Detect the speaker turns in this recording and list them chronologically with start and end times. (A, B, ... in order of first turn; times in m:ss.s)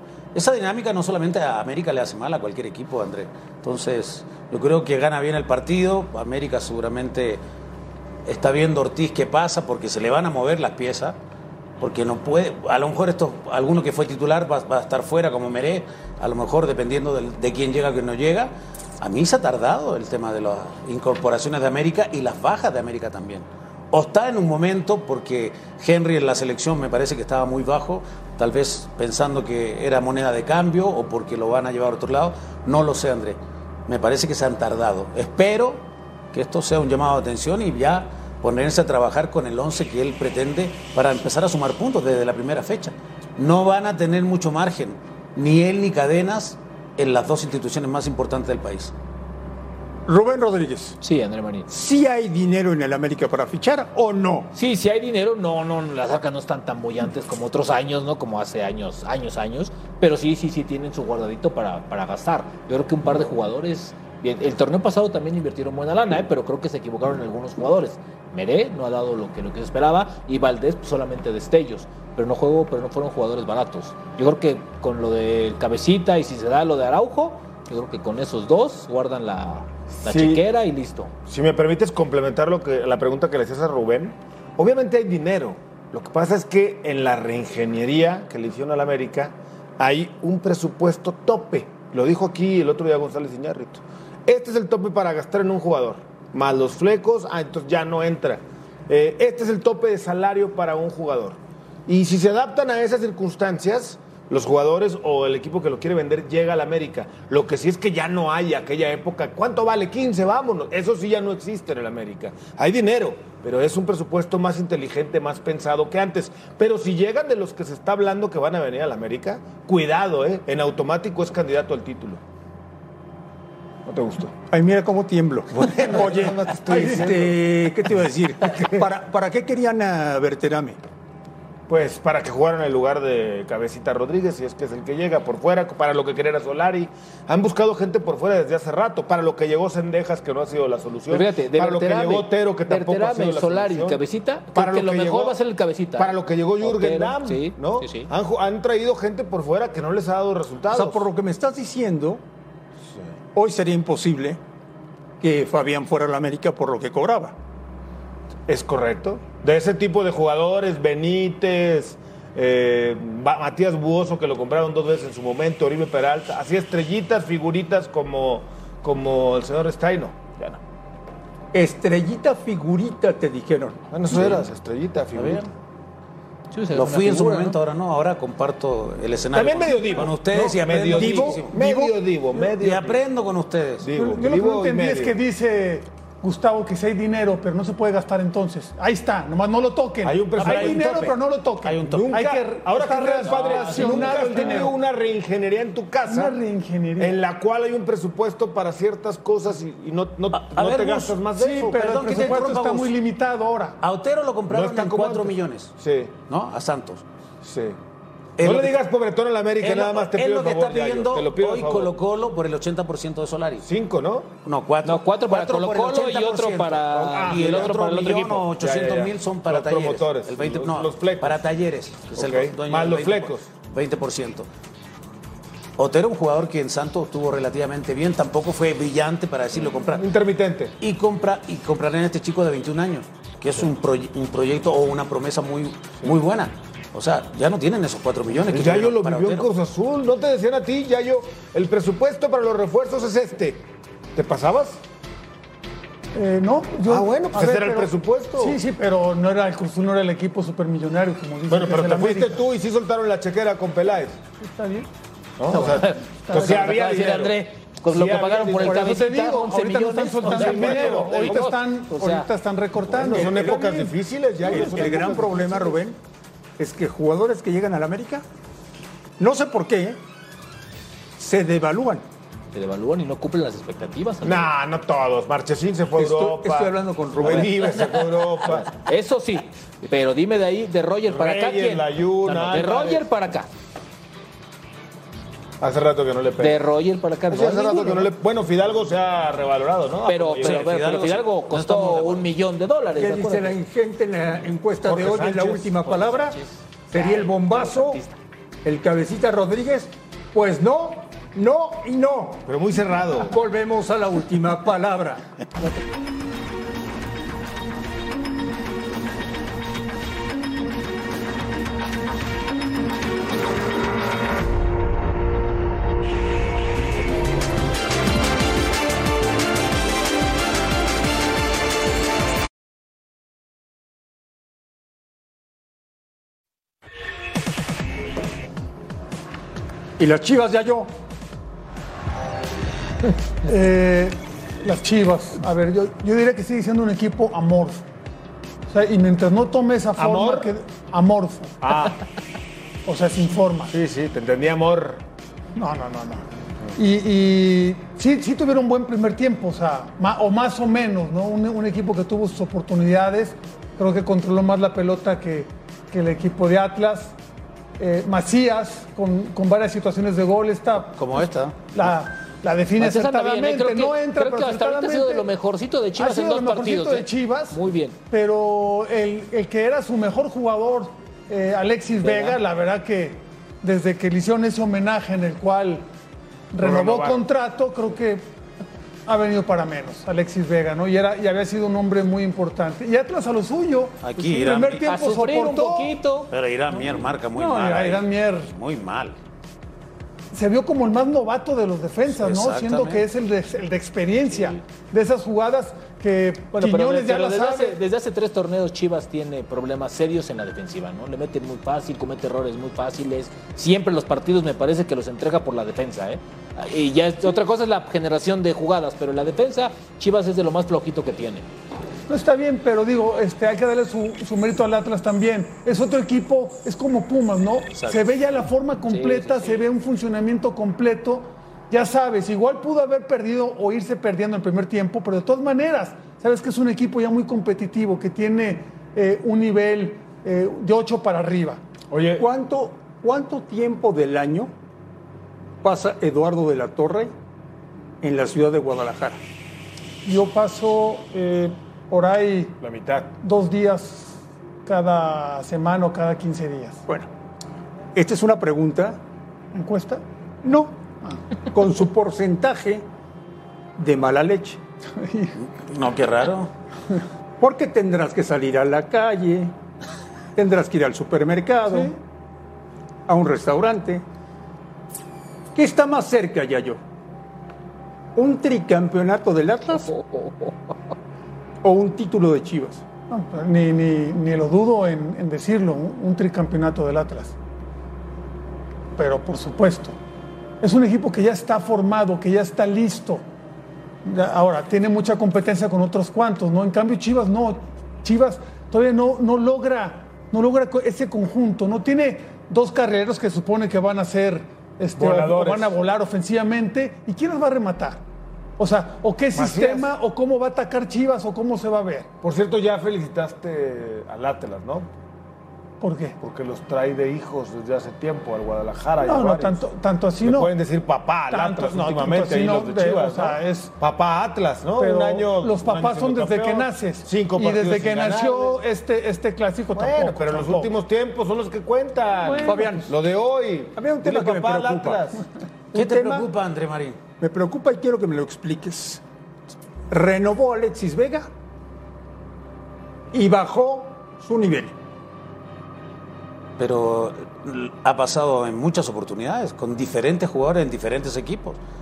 0:00.3-0:07.4 A
0:08.2-0:11.2 A
0:11.8-0:48.9 A
0:50.1-0:51.0 B
0:51.0-0:51.7 C
0:51.7-0:54.5 B
0:54.5-1:21.1 C
1:19.9-1:20.4 D
1:21.3-2:02.2 D
2:03.8-2:04.3 D
2:04.5-2:10.8 B
2:05.5-2:07.4 D
2:06.7-2:07.0 E
2:08.4-2:08.8 D
2:11.7-2:24.0 D
2:21.1-2:28.1 C
2:24.5-2:25.4 D
2:26.0-2:31.1 D
2:30.7-2:32.2 B
2:33.3-2:34.4 B
2:35.2-2:37.3 B
2:38.5-2:50.6 D
2:51.5-2:53.8 B
2:53.9-2:55.5 D
2:54.1-2:54.4 A
2:55.1-2:55.5 A
2:56.5-2:57.6 C
2:56.7-3:01.6 A
2:59.3-3:03.0 D
3:00.9-3:02.0 B
3:02.4-3:03.9 A
3:03.8-3:05.2 D
3:03.9-3:14.8 E
3:10.0-3:11.1 D
3:10.4-3:12.2 A
3:11.9-3:16.4 D
3:13.3-3:14.5 C
3:16.0-3:17.2 E
3:17.0-3:22.5 D
3:20.3-3:22.9 A
3:21.3-3:23.8 E
3:23.8-3:25.7 A
3:24.5-3:26.1 D
3:26.3-3:27.0 A
3:27.4-3:27.8 D
3:28.4-3:28.8 A
3:28.4-3:31.9 D
3:29.6-3:33.7 A
3:33.6-3:34.3 D
3:34.4-3:44.5 A
3:34.8-3:38.5 C
3:37.0-3:37.8 D
3:38.5-3:41.4 D
3:42.1-3:43.4 D
3:45.8-3:50.1 A
3:49.8-3:50.7 D
3:50.8-3:59.5 A
3:58.4-4:04.8 D
4:06.1-4:12.4 E
4:06.8-4:08.6 D
4:11.5-4:14.2 D
4:14.4-4:14.9 E
4:15.4-4:19.0 D
4:15.5-4:22.3 C
4:15.7-4:16.8 E
4:18.6-4:23.9 E
4:20.2-4:21.4 D
4:22.9-4:25.6 D
4:23.1-4:23.6 B
4:24.4-4:26.0 B
4:24.5-4:25.4 E
4:26.6-4:28.2 B
4:29.2-4:30.0 B
4:31.2-4:32.0 B
4:32.5-4:34.5 C
4:34.2-4:38.7 D
4:36.0-4:37.8 B
4:38.7-4:43.5 C
4:41.1-4:43.0 D
4:45.6-4:46.6 D
4:46.4-4:48.1 C
4:47.3-4:50.6 D
4:50.0-4:53.6 C
4:50.4-4:52.3 A
4:52.9-4:56.4 B
4:54.8-4:55.8 D
4:55.9-4:58.1 C
4:56.9-4:58.0 B
4:58.6-5:02.4 B
5:02.4-5:03.4 D
5:03.2-5:05.2 B
5:30.0-5:30.9 B
5:33.4-5:37.8 E
5:38.7-5:41.7 E
5:40.0-5:40.5 D
5:41.6-5:42.0 D
5:42.8-5:43.7 E
5:43.7-5:45.0 D
5:45.6-5:57.2 E
5:57.8-6:05.3 E
6:00.8-6:01.9 A
6:02.8-6:08.0 C
6:06.0-6:15.8 E
6:12.0-6:12.4 C
6:16.5-6:18.3 E
6:16.6-6:17.2 D
6:19.0-6:25.9 E
6:24.0-6:24.9 A
6:24.8-6:26.3 C
6:26.3-6:29.2 A
6:27.3-6:28.5 E
6:30.3-6:37.8 E
6:32.1-6:33.0 A
6:36.5-6:51.5 C
6:52.1-7:11.6 E
6:57.7-6:58.1 A
6:58.8-6:59.6 C
7:11.9-7:12.3 D
7:12.2-7:14.5 B
7:15.6-7:17.1 B
7:18.0-7:19.2 B
7:20.0-7:22.6 E
7:22.6-7:23.1 D
7:23.2-7:26.8 E
7:27.9-7:29.0 B
7:29.5-7:30.0 E
7:30.4-7:30.8 B
7:31.5-7:32.8 B
7:33.8-7:34.6 B
7:35.0-7:35.3 E
7:35.4-7:36.5 A
7:37.4-7:39.5 B
7:40.4-7:41.9 B
7:41.7-7:41.9 E
7:43.1-7:44.0 B
7:45.5-7:46.8 B
7:48.1-7:49.9 B
7:51.6-7:52.8 B
7:53.1-7:57.3 E
7:59.0-8:00.0 E
8:00.6-8:03.2 E
8:04.0-8:18.0 E
8:15.0-8:15.7 D
8:18.6-8:22.1 E
8:19.3-8:19.9 D
8:22.2-8:24.9 D
8:25.8-8:26.2 E
8:26.2-8:29.6 D
8:29.0-8:30.5 E
8:30.2-8:38.6 D
8:31.3-8:33.7 E
8:34.8-8:40.7 E
8:39.7-8:45.2 D
8:42.2-8:42.8 E
8:42.4-8:42.9 B
8:43.8-8:45.0 B
8:45.7-8:47.0 A
8:45.8-8:46.2 E
8:47.2-8:49.0 B
8:49.9-8:51.3 B
8:53.1-8:54.7 B
8:56.6-9:01.6 A